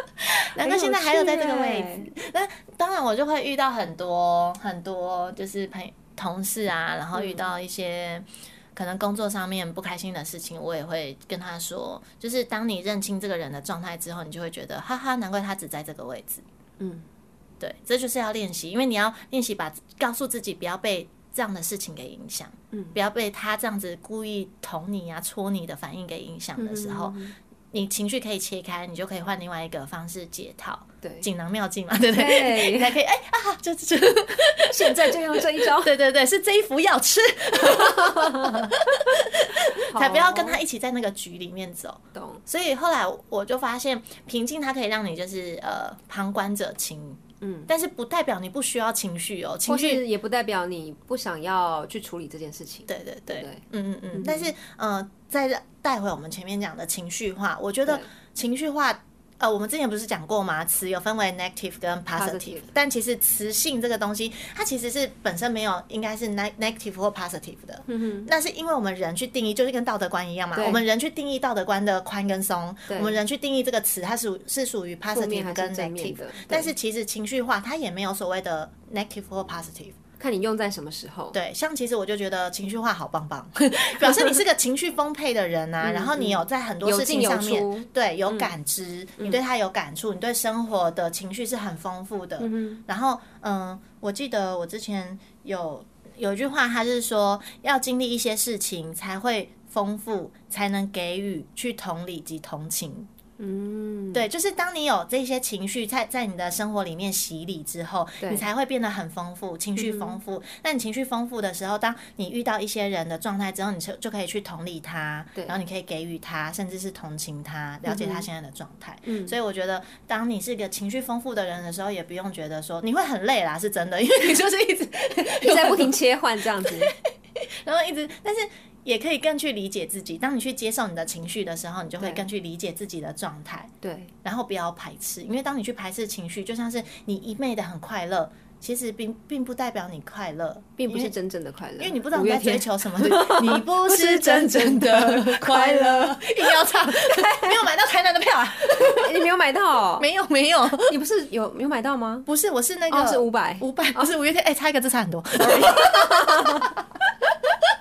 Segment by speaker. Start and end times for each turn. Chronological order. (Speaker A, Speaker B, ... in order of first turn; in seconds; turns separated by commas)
Speaker A: 0.5-16.4, Speaker B: 0.6-2.1, Speaker B: 7.1-7.5, Speaker B: 16.8-17.1, Speaker A: 17.6-27.2, Speaker B: 22.7-23.0, Speaker B: 26.6-27.3, Speaker A: 27.7-50.0, Speaker B: 31.0-31.3, Speaker B: 32.1-33.0, Speaker B: 34.7-36.0, Speaker B: 37.6-38.7, Speaker B: 39.7-40.6, Speaker B: 42.1-42.4, Speaker B: 47.4-47.7, Speaker B: 49.6-54.5, Speaker A: 52.9-80.0, Speaker B: 62.1-62.7, Speaker B: 67.9-68.3, Speaker B: 70.5-70.8, Speaker B: 72.9-73.2, Speaker B: 75.1-76.7, Speaker B: 80.2-81.4, Speaker A: 81.3-103.1, Speaker B: 85.8-88.5, Speaker B: 92.4-92.8, Speaker B: 103.4-104.3, Speaker A: 104.1-125.9, Speaker B: 109.8-110.2, Speaker B: 117.8-118.3, Speaker B: 119.0-119.3, Speaker B: 125.3-126.9, Speaker A: 126.6-127.0, Speaker A: 127.6-133.7, Speaker B: 132.0-132.3, Speaker B: 133.8-134.1, Speaker A: 134.2-141.1, Speaker B: 140.8-147.7, Speaker A: 141.8-149.1, Speaker B: 148.6-150.1, Speaker A: 150.0-150.9, Speaker B: 150.8-152.3, Speaker A: 152.2-156.7, Speaker B: 152.9-154.1, Speaker B: 155.4-156.8